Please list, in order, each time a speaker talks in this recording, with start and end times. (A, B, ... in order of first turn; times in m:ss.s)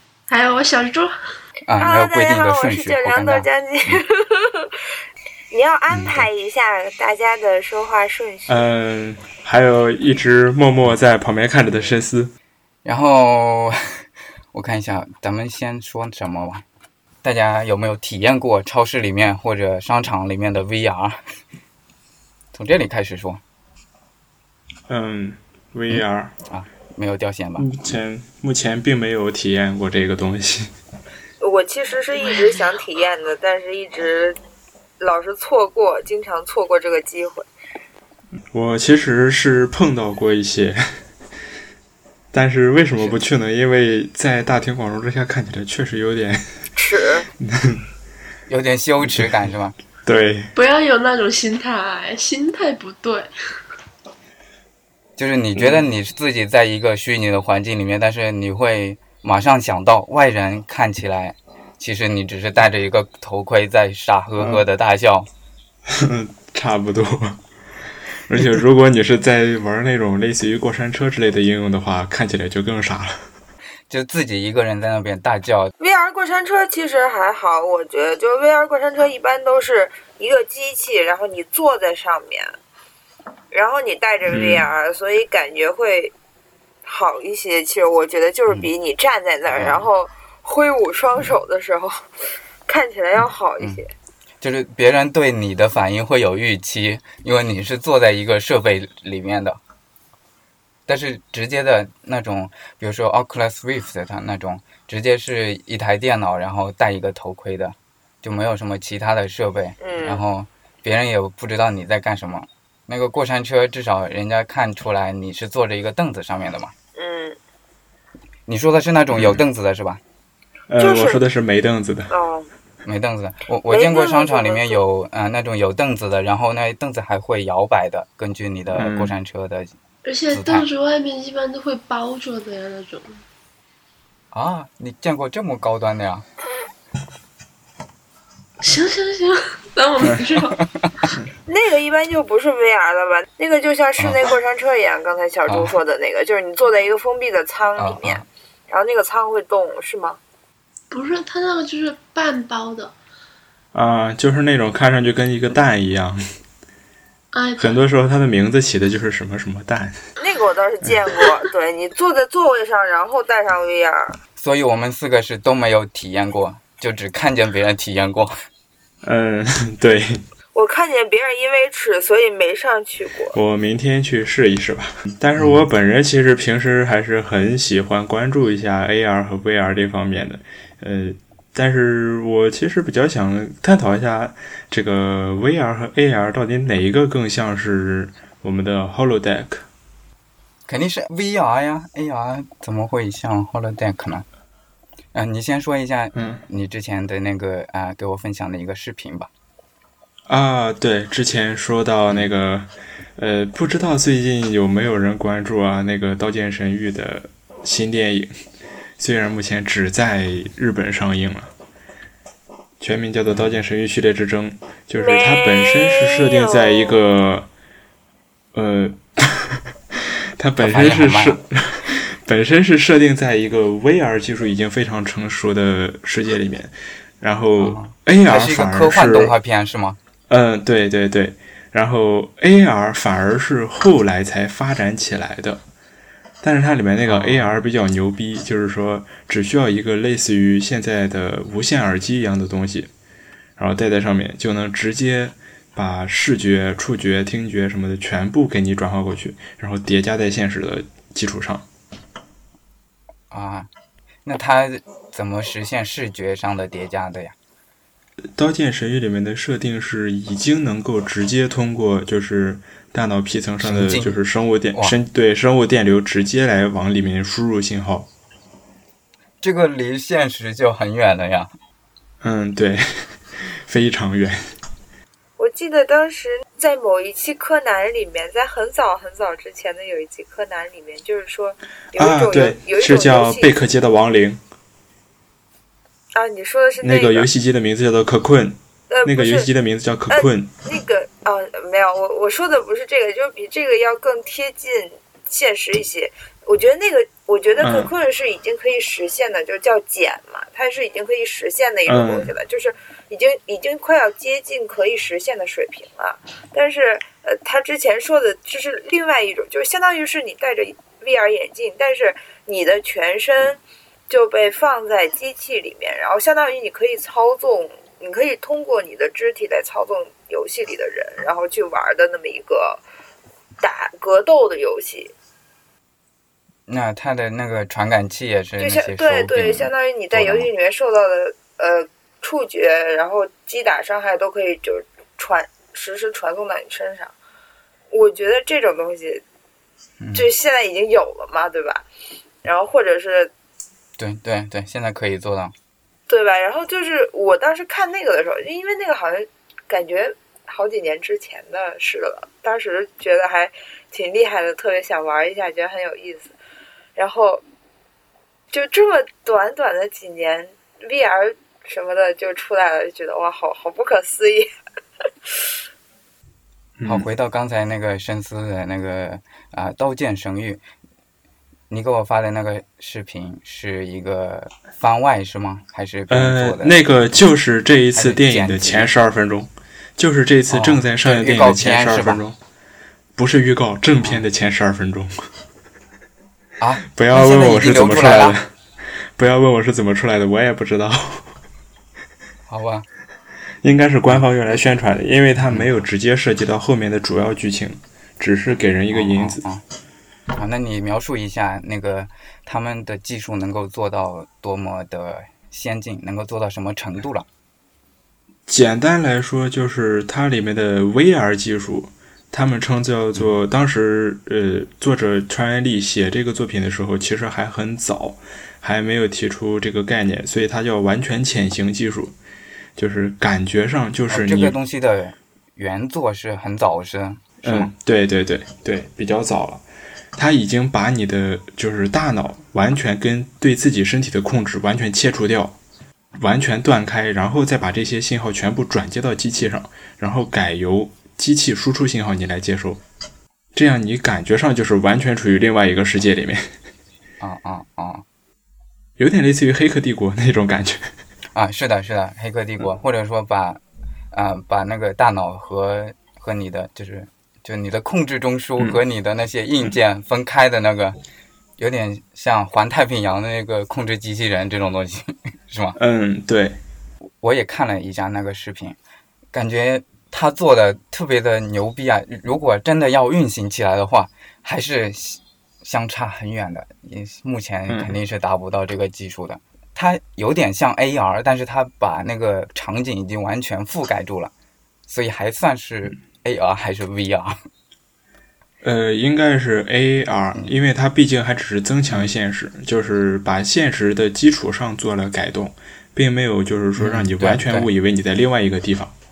0:00.3-0:01.1 A
0:01.6-0:03.5 B
0:01.8-0:04.8 C
0:05.5-0:08.7 C
0:08.5-0:12.3 D
0:12.8-0:13.8 B
0:14.5-0:16.6 B
0:17.2-0:21.2 B
0:22.5-0:23.4 B
0:24.9-0:26.3 D
0:25.9-0:27.7 B
0:27.6-0:30.7 D
0:31.4-0:34.4 C
0:35.0-0:37.5 C
0:38.5-0:41.0 D
0:42.3-0:46.7 D
0:46.8-0:47.3 C
0:47.4-0:47.9 D
0:48.5-0:49.8 B
0:49.0-0:49.4 D
0:50.0-0:50.5 D
0:50.6-0:53.3 A
0:55.2-1:05.3 B
0:55.6-0:55.8 D
1:04.4-1:04.6 D
1:05.9-1:07.4 D
1:08.3-1:13.2 D
1:13.9-1:15.7 B
1:15.8-1:22.6 C
1:23.5-1:26.1 C
1:24.3-1:24.7 D
1:26.8-1:32.0 C
1:29.5-1:29.9 B
1:32.7-1:33.9 C
1:34.4-1:39.6 B
1:40.9-1:56.7 B
1:49.8-1:50.2 C
1:57.0-1:57.4 C
1:58.5-2:00.0 B
1:59.1-1:59.4 D
2:00.7-2:02.1 D
2:00.8-2:01.2 C
2:02.1-2:02.5 C
2:02.8-2:09.7 B
2:03.7-2:04.8 C
2:08.8-2:09.1 D
2:10.0-2:13.2 A
2:10.3-2:10.6 B
2:14.3-2:16.2 B
2:18.6-2:20.6 A
2:20.0-2:20.3 D
2:20.6-2:20.9 B
2:21.5-2:30.2 C
2:25.5-2:25.8 B
2:27.8-2:28.2 B
2:30.9-2:32.9 A
2:33.7-2:36.2 D
2:37.3-2:37.8 A
2:37.6-2:40.0 D
2:40.2-2:44.2 C
2:44.4-2:48.3 B
2:49.0-2:50.2 D
2:50.5-2:53.3 C
2:53.3-3:09.6 D
2:55.4-2:55.6 B
3:10.7-3:14.2 B
3:15.1-3:19.3 B
3:16.1-3:16.4 D
3:20.3-3:28.3 D
3:29.0-3:31.5 D
3:32.8-3:37.5 D
3:35.0-3:37.0 C
3:38.5-3:49.3 D
3:40.6-3:41.4 B
3:47.6-3:50.0 B
3:50.3-3:55.6 D
3:56.4-4:02.9 D
3:57.0-3:57.5 B
4:03.6-4:11.6 D
4:13.3-4:13.7 B
4:14.2-4:17.3 B
4:18.3-4:28.1 D
4:23.6-4:24.2 B
4:29.4-4:31.5 B
4:32.2-4:34.4 D
4:35.4-4:43.5 C
4:42.0-4:44.4 D
4:46.1-4:47.3 C
4:46.8-4:50.5 D
4:48.9-4:49.5 C
4:50.1-5:22.8 C
4:57.6-4:57.9 D
5:01.8-5:02.3 D
5:23.6-5:25.1 C
5:26.7-5:30.5 B
5:28.6-5:37.1 C
5:37.9-5:39.2 C
5:40.0-5:40.3 B
5:40.1-5:41.8 C
5:42.4-5:43.3 C
5:44.0-5:45.5 B
5:46.1-5:56.3 C
5:57.0-5:57.4 C
5:58.5-6:04.5 C
6:06.8-6:07.1 D
6:06.8-6:10.6 B
6:11.7-6:17.1 B
6:16.1-6:22.4 D
6:17.9-6:18.9 B
6:20.5-6:22.2 B
6:23.2-6:25.2 D
6:26.6-6:28.4 B
6:26.9-6:31.3 D
6:32.5-6:32.9 B
6:33.6-6:39.4 D
6:34.1-6:34.6 B
6:35.4-6:35.8 B
6:38.9-6:39.6 B
6:40.3-6:47.2 B
6:48.5-7:02.1 D
7:02.8-7:04.6 D
7:04.1-7:07.7 B
7:07.4-7:09.6 D
7:10.1-7:15.6 D
7:16.2-7:22.8 D
7:23.5-7:26.5 D
7:27.2-7:28.0 B
7:29.0-7:30.9 D
7:31.3-7:41.0 B
7:41.6-7:45.8 B
7:45.8-7:46.6 D
7:47.2-7:48.8 B
7:49.3-8:04.3 B
7:57.7-7:58.0 D
8:04.9-8:07.4 B
8:08.6-8:18.9 D
8:16.8-8:17.7 B